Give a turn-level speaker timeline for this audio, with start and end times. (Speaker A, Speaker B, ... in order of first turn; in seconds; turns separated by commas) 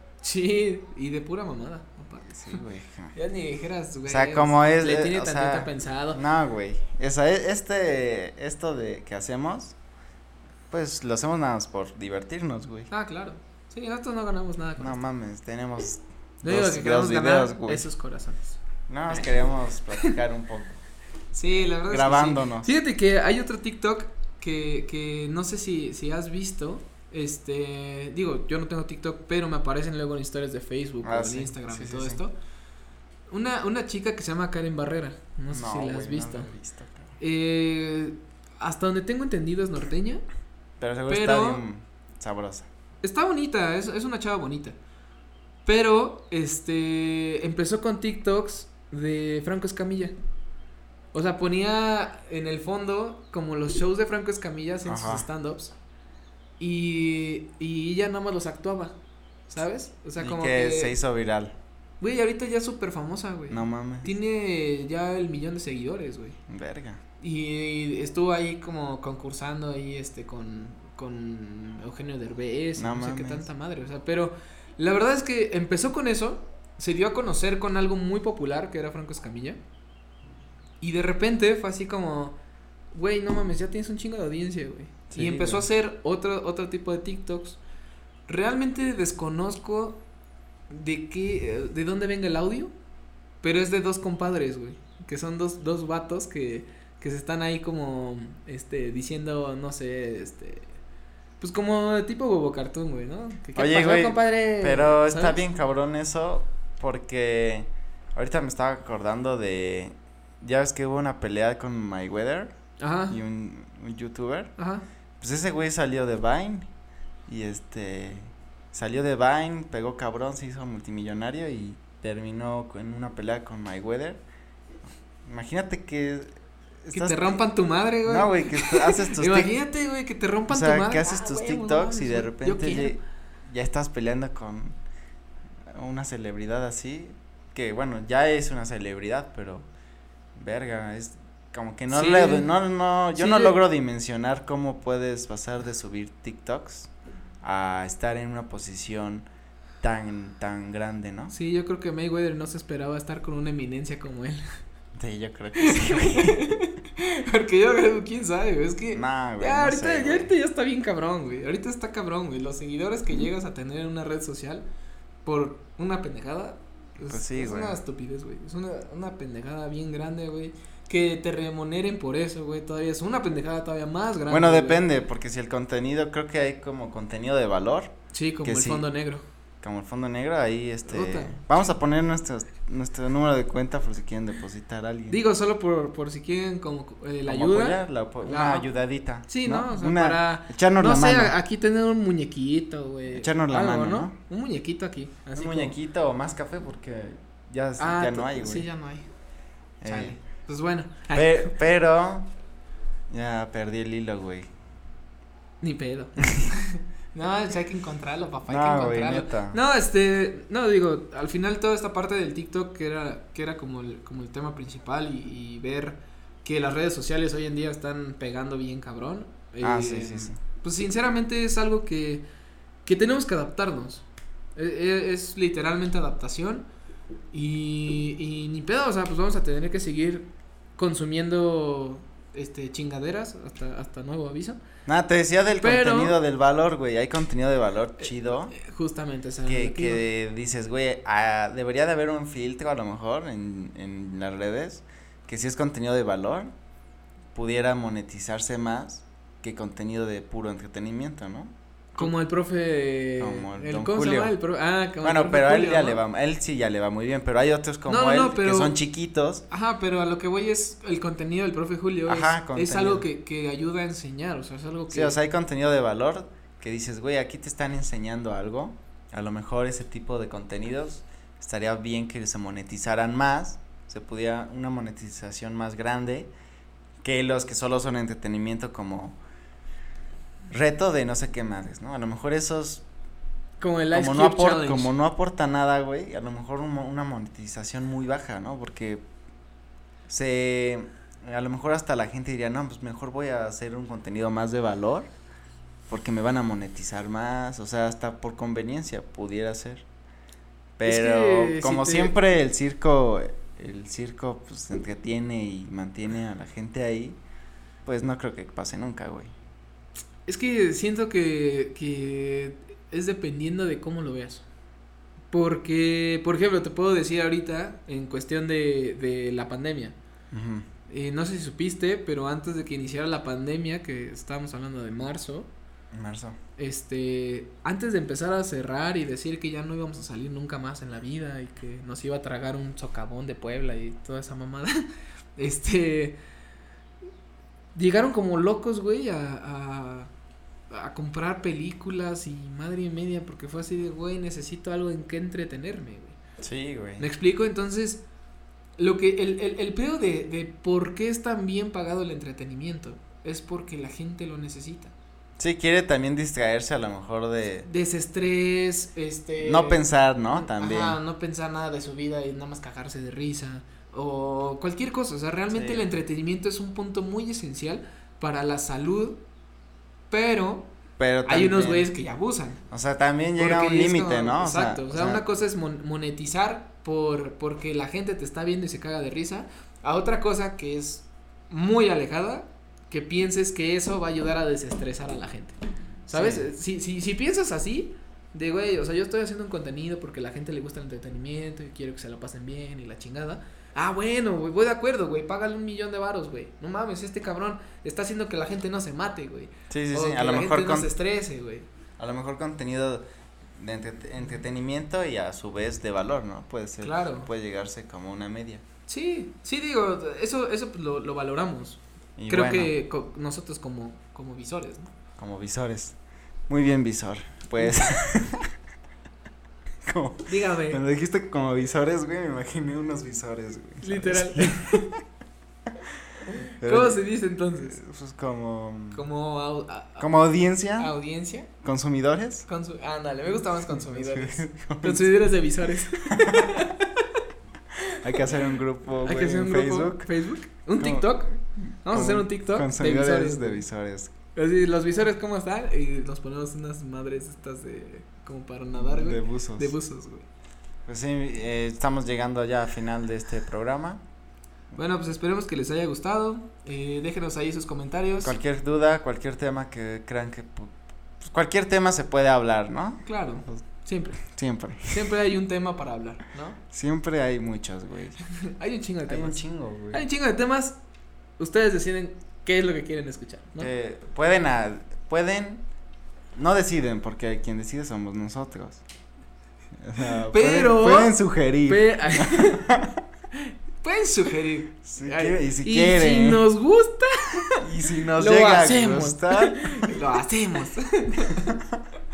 Speaker A: 0.2-2.6, Speaker B: 2.4-3.1, Speaker A: 3.1-6.2, Speaker B: 4.0-9.8, Speaker B: 10.7-12.9, Speaker A: 12.9-14.9, Speaker B: 14.8-17.9, Speaker A: 16.4-18.6, Speaker B: 18.9-20.8, Speaker A: 19.1-20.1, Speaker A: 21.3-32.3, Speaker B: 21.9-22.7, Speaker B: 31.0-32.2, Speaker A: 33.3-36.5, Speaker B: 35.5-37.1, Speaker A: 37.2-40.2, Speaker B: 40.8-42.7, Speaker A: 41.1-41.6, Speaker A: 43.0-44.8, Speaker A: 45.6-50.1, Speaker A: 51.1-55.7, Speaker B: 54.9-55.2, Speaker A: 56.6-59.0, Speaker A: 59.5-61.0, Speaker B: 60.2-61.5, Speaker A: 62.0-66.4, Speaker B: 63.5-64.1, Speaker B: 66.5-67.0, Speaker A: 67.2-79.6, Speaker B: 72.8-73.5, Speaker A: 80.8-82.4, Speaker A: 82.9-87.6, Speaker B: 85.1-85.7, Speaker A: 88.3-90.0, Speaker A: 90.7-92.7, Speaker A: 93.4-100.7, Speaker A: 101.4-105.4, Speaker B: 103.5-112.5, Speaker A: 112.8-113.2, Speaker B: 113.1-114.5, Speaker A: 114.6-114.8, Speaker B: 115.2-116.7, Speaker B: 117.3-124.2, Speaker B: 125.2-127.4, Speaker A: 126.9-132.9, Speaker B: 128.1-129.5, Speaker B: 130.5-134.8, Speaker B: 135.7-139.7, Speaker B: 140.3-146.9, Speaker A: 141.9-142.5, Speaker A: 143.1-143.6, Speaker B: 147.4-149.3, Speaker B: 149.8-151.3, Speaker A: 151.3-154.4, Speaker B: 154.9-156.4, Speaker A: 155.6-164.7, Speaker B: 158.9-160.3, Speaker A: 165.2-174.8, Speaker B: 167.0-167.8, Speaker B: 174.3-177.9, Speaker A: 178.1-179.2, Speaker B: 178.4-178.9, Speaker B: 179.6-185.2, Speaker A: 180.9-181.6, Speaker A: 185.1-188.7, Speaker B: 187.3-191.3, Speaker A: 189.3-195.8, Speaker B: 193.1-194.1, Speaker B: 195.3-198.7, Speaker A: 197.8-199.1, Speaker B: 199.8-200.2, Speaker A: 199.8-201.6, Speaker B: 201.1-202.3, Speaker B: 203.1-204.5, Speaker A: 205.6-222.2, Speaker B: 208.5-209.6, Speaker B: 219.6-220.4, Speaker A: 222.8-224.0, Speaker A: 224.6-226.6, Speaker A: 227.3-234.6, Speaker B: 234.8-238.5, Speaker A: 235.6-236.2, Speaker A: 238.0-240.0, Speaker B: 239.4-246.5, Speaker B: 247.3-252.1, Speaker A: 251.9-256.0, Speaker B: 253.2-254.3, Speaker B: 255.0-259.4, Speaker A: 257.9-258.7, Speaker A: 259.5-265.2, Speaker B: 262.1-263.1, Speaker B: 264.9-276.3, Speaker B: 277.0-279.2, Speaker B: 280.5-282.8, Speaker A: 283.6-284.9, Speaker B: 283.9-289.0, Speaker B: 290.1-295.1, Speaker B: 295.9-299.8, Speaker B: 300.8-307.2, Speaker A: 300.8-302.1, Speaker B: 307.9-309.3, Speaker A: 310.3-314.4, Speaker A: 315.3-319.9, Speaker B: 320.3-320.6, Speaker A: 320.9-325.5, Speaker B: 325.9-326.4, Speaker A: 326.6-334.8, Speaker A: 335.4-336.2, Speaker A: 337.7-340.1, Speaker A: 340.7-346.2, Speaker B: 346.4-347.1, Speaker A: 347.0-348.0, Speaker A: 348.8-354.9, Speaker B: 355.4-357.7, Speaker A: 357.6-369.2, Speaker B: 359.4-361.0, Speaker B: 365.5-365.9, Speaker A: 370.1-370.7, Speaker B: 371.0-371.9, Speaker A: 371.2-372.6, Speaker B: 372.7-375.2, Speaker A: 373.4-401.7, Speaker B: 386.1-386.5, Speaker B: 399.7-400.9, Speaker B: 402.0-403.0, Speaker B: 403.6-408.6, Speaker A: 406.8-407.3, Speaker A: 408.9-414.9, Speaker B: 412.2-412.7, Speaker B: 415.2-415.9, Speaker B: 416.5-418.5, Speaker B: 419.9-425.0, Speaker A: 420.2-420.8, Speaker A: 423.8-424.9, Speaker A: 426.5-427.8, Speaker B: 426.6-429.0, Speaker A: 428.9-430.1, Speaker B: 430.0-430.9, Speaker A: 430.8-431.5, Speaker B: 431.6-432.4, Speaker A: 432.4-437.0, Speaker B: 433.7-435.1, Speaker B: 436.1-436.5, Speaker B: 438.0-440.1, Speaker A: 439.0-443.6, Speaker B: 440.8-441.1, Speaker B: 441.8-444.1, Speaker A: 444.3-450.3, Speaker B: 448.7-449.7, Speaker B: 450.9-454.0, Speaker A: 454.7-458.4, Speaker B: 458.2-463.6, Speaker A: 463.0-464.3, Speaker B: 464.3-465.1, Speaker A: 464.9-466.6, Speaker B: 466.7-468.2, Speaker A: 468.6-469.4, Speaker B: 469.1-470.1, Speaker A: 469.9-470.8, Speaker A: 471.4-473.7, Speaker B: 473.6-475.6, Speaker B: 476.3-478.8, Speaker B: 479.8-483.0, Speaker A: 480.3-482.7, Speaker A: 483.3-487.6, Speaker B: 484.9-486.4, Speaker B: 487.6-490.0, Speaker A: 488.2-491.5, Speaker B: 491.4-491.8